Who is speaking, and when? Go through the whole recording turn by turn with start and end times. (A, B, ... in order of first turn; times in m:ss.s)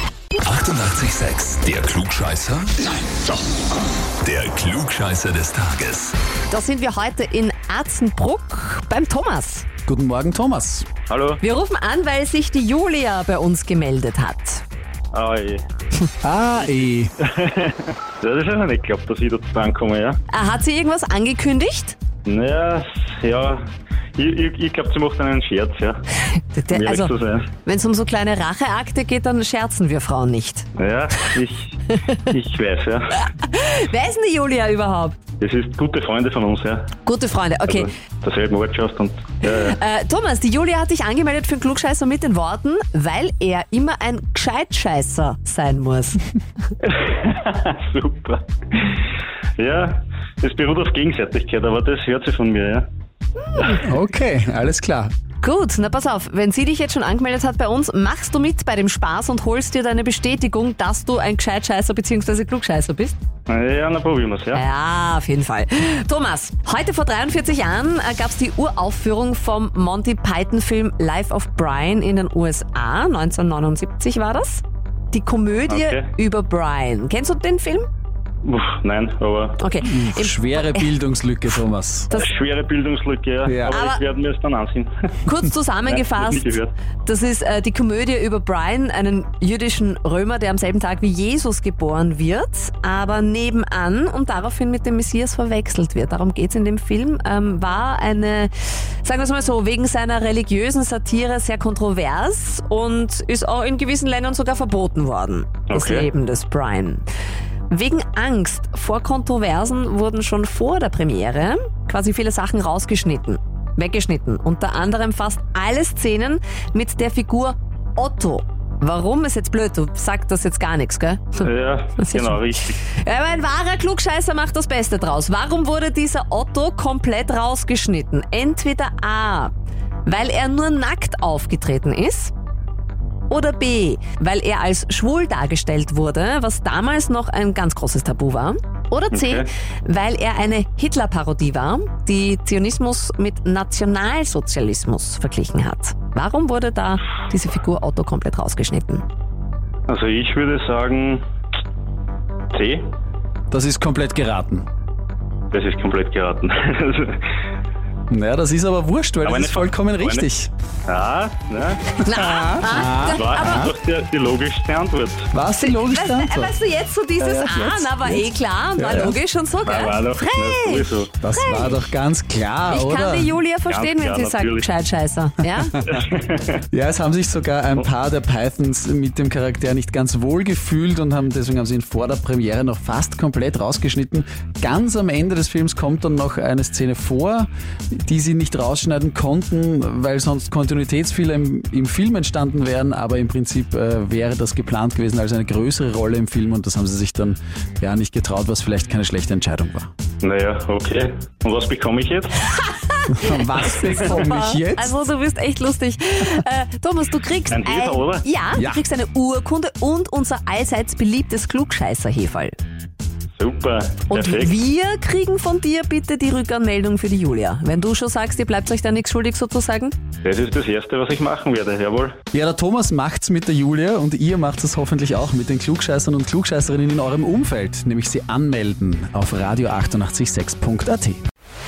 0:00.4-0:03.4 A
0:04.2-0:06.2 A
0:06.5-0:09.7 B
0:09.9-0:10.9 C
0:11.1-0:11.4 D
0:11.4-0:14.6 B
0:15.1-0:15.6 D
0:16.2-0:17.1 C
0:17.2-0:20.2 D
0:20.3-0:22.0 B
0:22.3-0:23.6 D
0:24.2-0:26.0 D
0:26.3-0:27.1 B
0:26.7-0:27.5 D
0:27.6-0:30.7 B
0:30.8-0:33.2 D
0:33.3-0:35.2 B
0:35.4-0:36.9 D
0:37.0-0:37.9 B
0:37.7-0:39.8 D
0:39.4-0:46.3 B
0:46.8-0:48.9 D
0:49.6-0:52.9 D
0:53.4-0:53.8 B
0:53.6-0:55.1 C
0:55.4-1:03.2 B
1:03.5-1:04.6 D
1:04.5-1:17.9 B
1:15.7-1:16.1 D
1:18.4-1:19.6 D
1:19.6-1:20.9 B
1:19.8-1:22.1 C
1:22.1-1:24.9 D
1:23.4-1:23.8 C
1:23.7-1:24.0 B
1:25.3-1:47.0 B
1:25.8-1:26.7 D
1:45.7-1:46.1 D
1:47.7-2:09.5 B
2:01.4-2:02.8 D
2:10.0-2:12.3 B
2:13.3-2:29.0 B
2:19.1-2:19.5 D
2:29.9-2:31.2 D
2:32.5-2:32.8 D
2:33.5-2:34.6 C
2:35.5-2:37.3 D
2:38.1-2:40.5 C
2:39.2-2:40.3 D
2:40.9-2:42.0 D
2:42.0-2:43.7 B
2:42.0-2:43.7 C
2:43.1-2:45.3 D
2:45.3-2:46.6 C
2:45.6-2:51.9 B
2:47.2-2:47.7 D
2:47.3-2:48.2 C
2:48.8-2:49.2 C
2:49.6-2:51.1 D
2:51.2-2:53.4 C
2:52.7-2:55.9 B
2:53.7-2:54.7 D
2:55.8-2:56.6 D
2:56.7-3:19.9 C
3:20.2-3:22.4 D
3:22.5-3:32.5 B
3:23.1-3:24.9 C
3:27.5-3:28.2 D
3:28.6-3:28.8 C
3:33.4-3:34.6 D
3:34.1-3:40.0 B
3:40.2-3:42.2 D
3:42.3-3:51.2 C